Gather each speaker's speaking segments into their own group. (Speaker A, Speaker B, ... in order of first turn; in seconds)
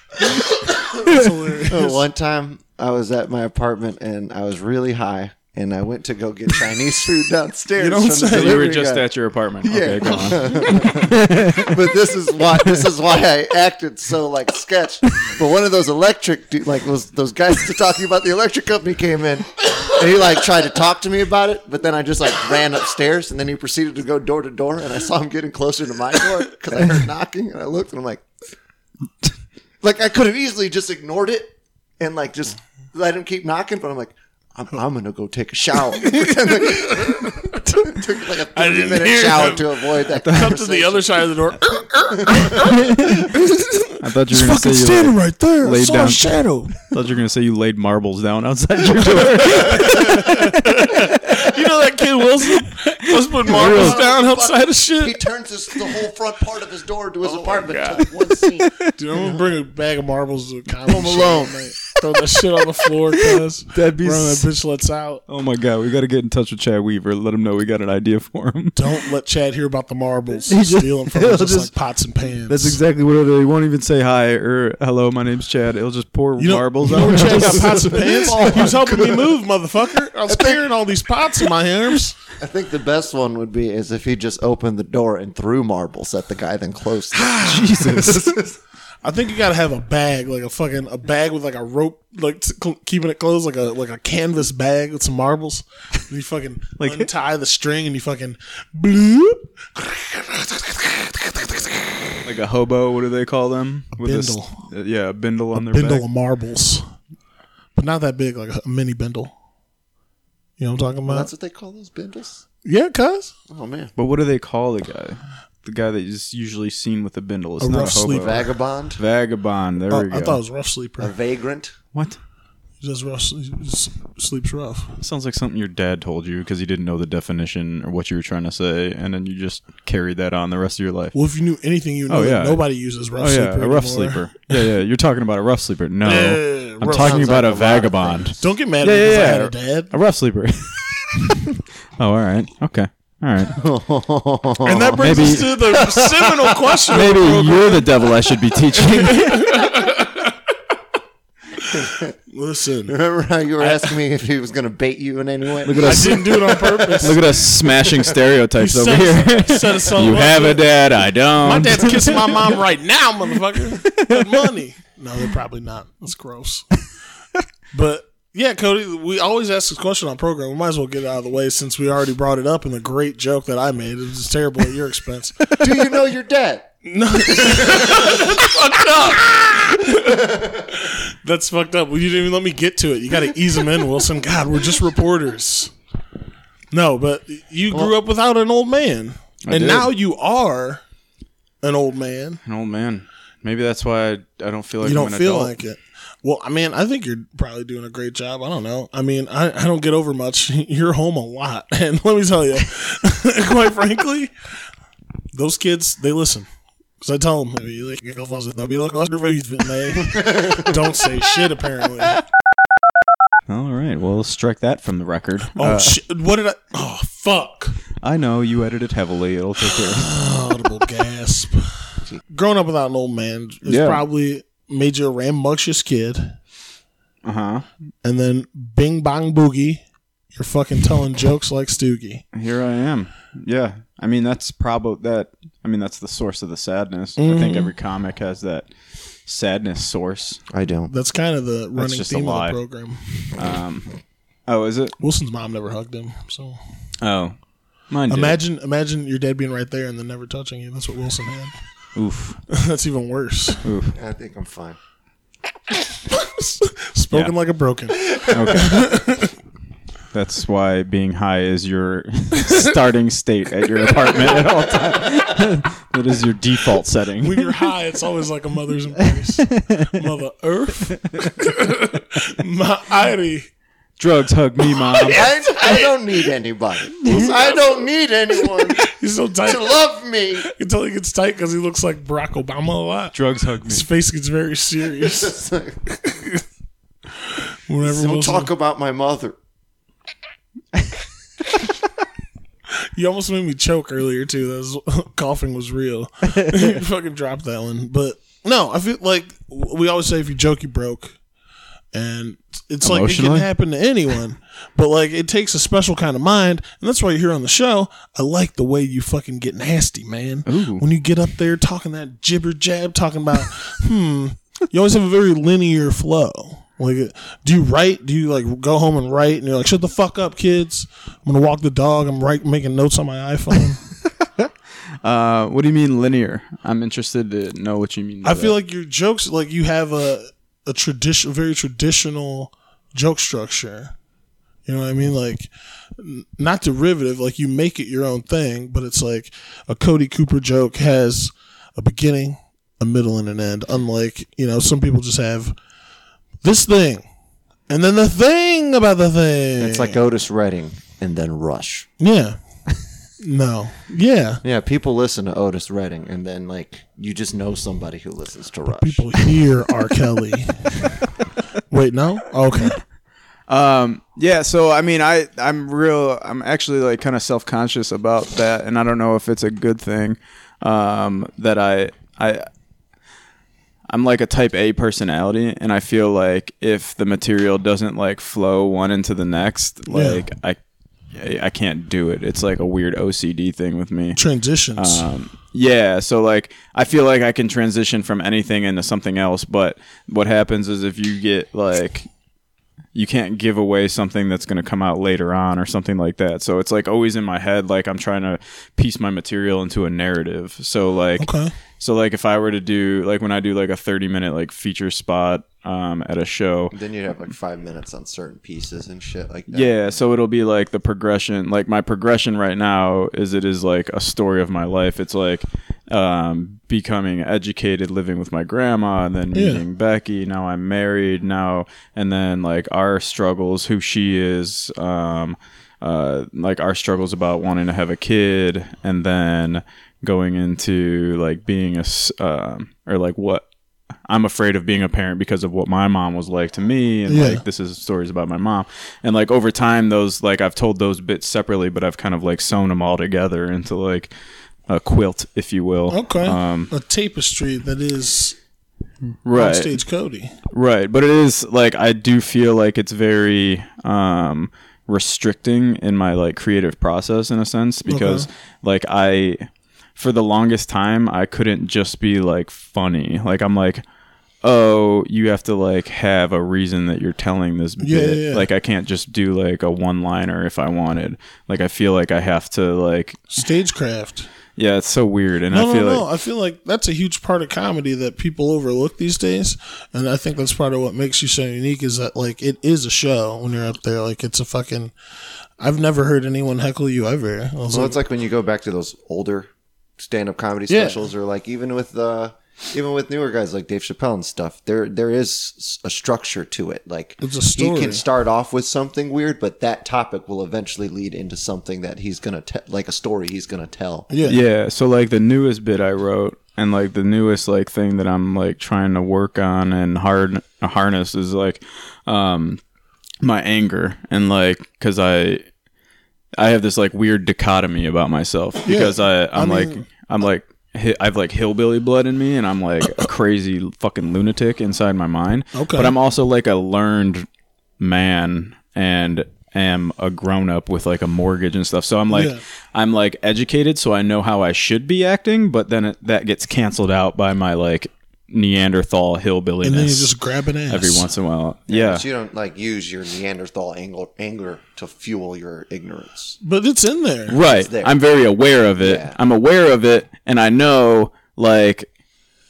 Speaker A: 0.3-2.0, 7.8-8.7, 10.4-10.8, 36.1-37.6, 38.5-46.8, 49.0-55.2, 57.4-58.1, 58.9-65.2, 68.8-72.8, 76.4-82.2, 87.1-88.2, 89.0-102.1, 104.0-104.7, 105.5-106.9, 107.8-109.3, 110.6-111.3, 112.7-113.3, 117.6-118.5, 119.9-121.1, 122.8-125.0, 131.1-134.3, 136.1-137.4, 138.4-139.9, 144.7-147.9, 148.9-150.3, 151.6-152.9, 155.8-157.2, 158.6-160.7, 161.4-166.7, 167.7-175.6, 176.8-185.7, 186.7-190.8, 191.6-192.4, 194.8-204.3, 205.3-206.5, 207.0-212.2, 215.6-217.8, 219.7-221.7, 222.3-226.4, 228.0-232.2, 237.2-237.7, 240.9-243.4, 245.0-246.6, 248.1-251.5, 252.5-253.6, 256.1-259.3, 267.2-273.5, 274.9-275.9, 277.1-277.6, 278.7-279.8, 280.4-285.4, 286.1-286.4, 287.3-288.5, 292.9-301.2, 301.9-323.8, 328.2-333.9, 334.7-345.6, 346.4-347.0, 347.7-350.0, 352.0-352.4, 353.2-354.4, 358.7-361.0, 361.7-362.8, 379.9-380.2, 384.2-385.1, 401.2-401.5, 419.3-419.6, 437.1-437.4, 445.9-448.4, 449.4-450.3, 457.9-458.3, 467.8-468.5, 473.3-474.3, 475.5-484.9, 485.6-488.0, 490.7-491.1, 497.2-498.0, 504.1-504.4, 518.6-519.8, 525.5-525.9, 532.1-532.4, 539.6-541.0, 546.4-547.4
Speaker B: 0.9-1.2, 8.3-11.9, 40.2-40.6, 42.5-43.3, 44.0-51.6, 53.4-54.1, 57.4-58.9, 63.1-64.5, 65.3-68.8, 70.5-71.7, 72.5-79.1, 87.4-88.4, 96.8-97.1, 102.2-106.0, 114.0-118.4, 119.0-120.4, 121.9-122.2, 125.0-131.2, 132.1-132.6, 133.2-143.6, 145.0-145.8, 146.9-149.7, 155.6-162.5, 163.7-164.4, 189.4-189.9, 192.4-195.5, 213.5-216.0, 218.0-220.1, 223.7-224.0, 227.2-227.7, 232.3-238.7, 239.3-240.4, 241.8-242.6, 243.3-243.9, 244.5-244.9, 247.0-247.3, 247.9-248.4, 251.9-252.4, 253.6-254.0, 258.3-258.9, 260.1-267.6, 269.5-270.0, 270.9-271.3, 274.0-275.3, 277.0-277.3, 283.1-283.9, 302.8-303.5, 310.5-310.8, 325.0-328.6, 363.5-372.5, 373.9-380.6, 381.1-384.2, 384.8-392.1, 392.9-406.8, 409.5-433.5, 434.1-444.1, 444.7-446.7, 449.2-449.8, 450.5-463.8, 464.4-473.3, 474.6-476.1, 504.2-512.6, 513.2-515.4, 516.4-527.3, 527.8-540.1, 540.7-542.0, 547.3-551.9
Speaker C: 1.6-9.1, 9.6-28.2, 29.8-41.3, 42.1-42.5, 53.4-58.7, 60.9-61.6, 77.5-79.1, 80.3-80.6, 82.4-87.5, 111.1-112.4, 113.5-113.9, 118.1-119.0, 121.0-121.8, 136.8-138.3, 143.5-146.2, 151.7-152.1, 152.9-156.5, 175.6-176.7, 177.2-178.3, 180.0-180.7, 240.5-240.9, 253.9-254.8, 274.9-278.9, 279.4-280.5, 285.0-285.8, 287.8-289.4, 349.6-351.9, 354.4-359.1, 406.7-410.0, 487.7-504.1, 541.7-546.4, 547.4-548.0, 548.8-549.2